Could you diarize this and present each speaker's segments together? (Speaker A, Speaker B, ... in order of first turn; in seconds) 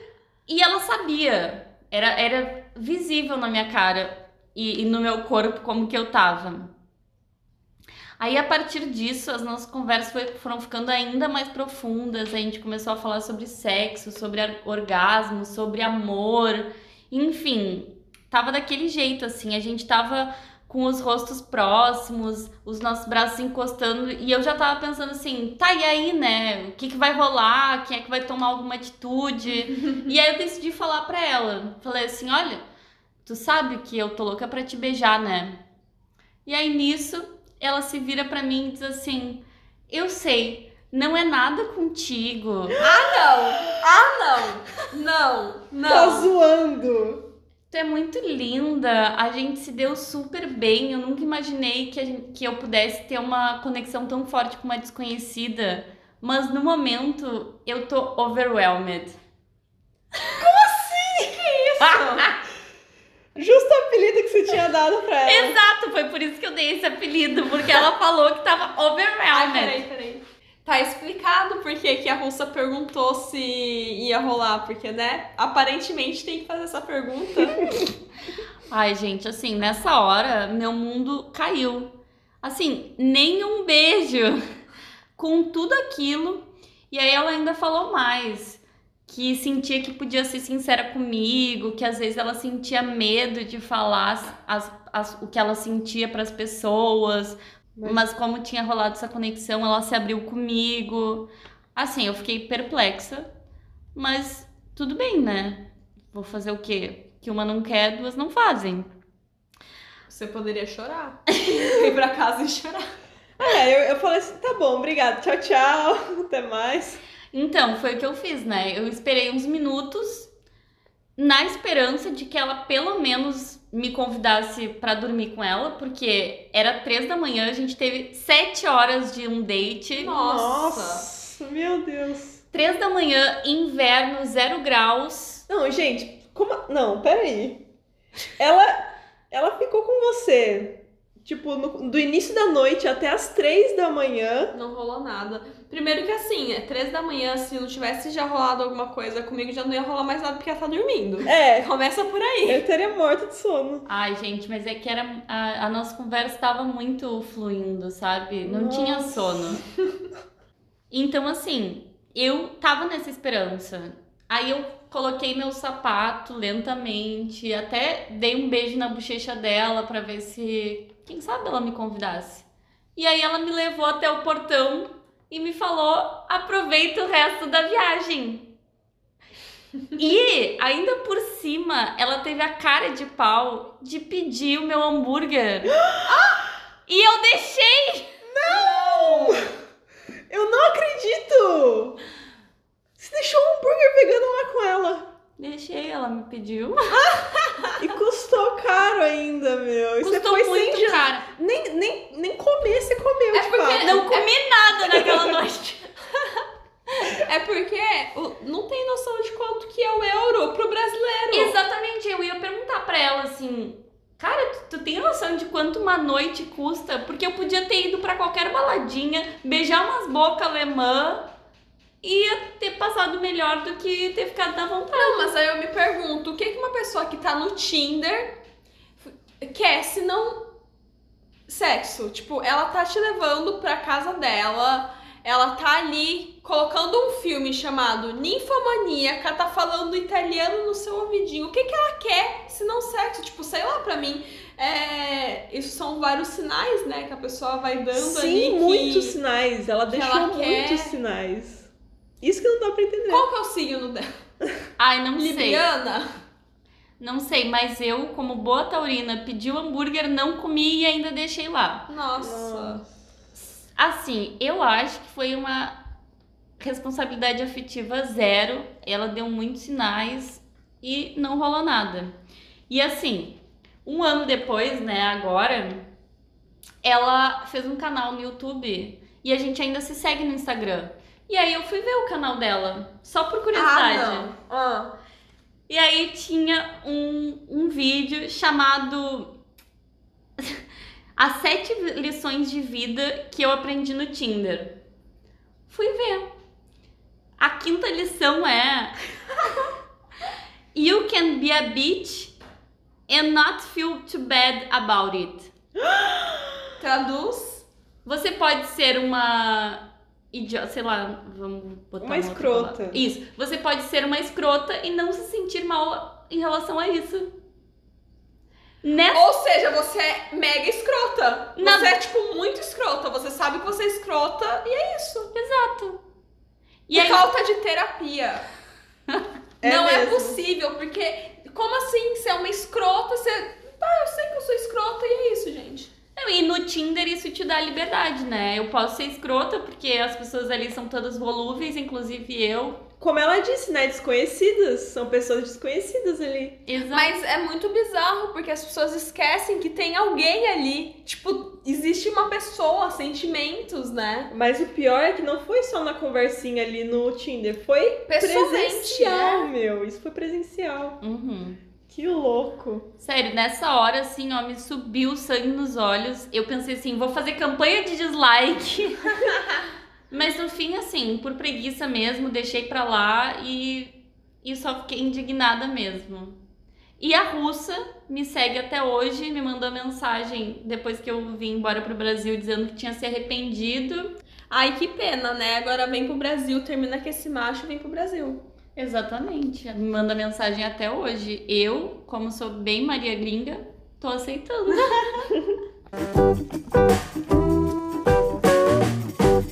Speaker A: 0.5-6.7, 8.2-32.6, 33.3-35.6, 36.5-42.8, 47.7-59.2, 61.8-62.4, 65.2-69.8, 78.7-84.4, 85.2-103.3, 104.0-108.9, 117.3-120.3, 121.2-130.2, 132.5-135.4, 153.9-159.6, 160.9-178.5, 179.9-185.8, 186.9-189.4, 195.4-197.1, 200.0-201.2, 203.8-205.9, 211.3-221.3, 222.0-225.3, 254.8-255.7, 257.0-261.9, 263.8-265.8, 266.6-272.1, 272.7-275.9, 276.8-284.3, 285.7-289.3, 291.2-294.8, 295.7-296.3, 297.4-298.9, 300.7-302.4, 303.1-305.5, 308.1-317.3, 318.8-319.3, 321.6-322.0, 325.4-326.0, 326.9-327.2, 336.2-342.8, 346.7-347.2, 361.0-361.6, 363.0-369.4, 370.1-376.4, 377.0-384.1, 388.8-395.1
Speaker B: 42.8-46.3, 61.2-62.3, 69.3-77.7, 110.1-112.8, 130.0-131.1, 144.5-152.6, 186.1-186.4, 203.3-204.3, 207.0-211.6, 224.9-228.4, 229.4-230.5, 231.5-249.2, 249.9-251.0, 253.1-254.1, 255.2-256.0, 261.9-262.8, 283.5-284.9, 306.8-307.7, 319.1-325.3, 326.9-328.5, 329.6-335.9, 346.9-354.3, 358.1-359.5, 384.5-388.4
Speaker C: 45.8-47.2, 60.3-61.6, 63.4-65.6, 97.8-98.0, 113.4-117.0, 130.1-132.4, 135.5-137.7, 138.4-144.5, 151.3-151.7, 152.5-153.9, 158.4-159.6, 188.3-189.5, 190.3-192.0, 193.0-195.1, 197.8-204.0, 204.9-205.4, 247.9-253.3, 262.2-262.9, 305.9-306.4, 312.0-313.0, 329.6-330.4, 343.0-346.6, 354.3-361.0, 361.9-362.9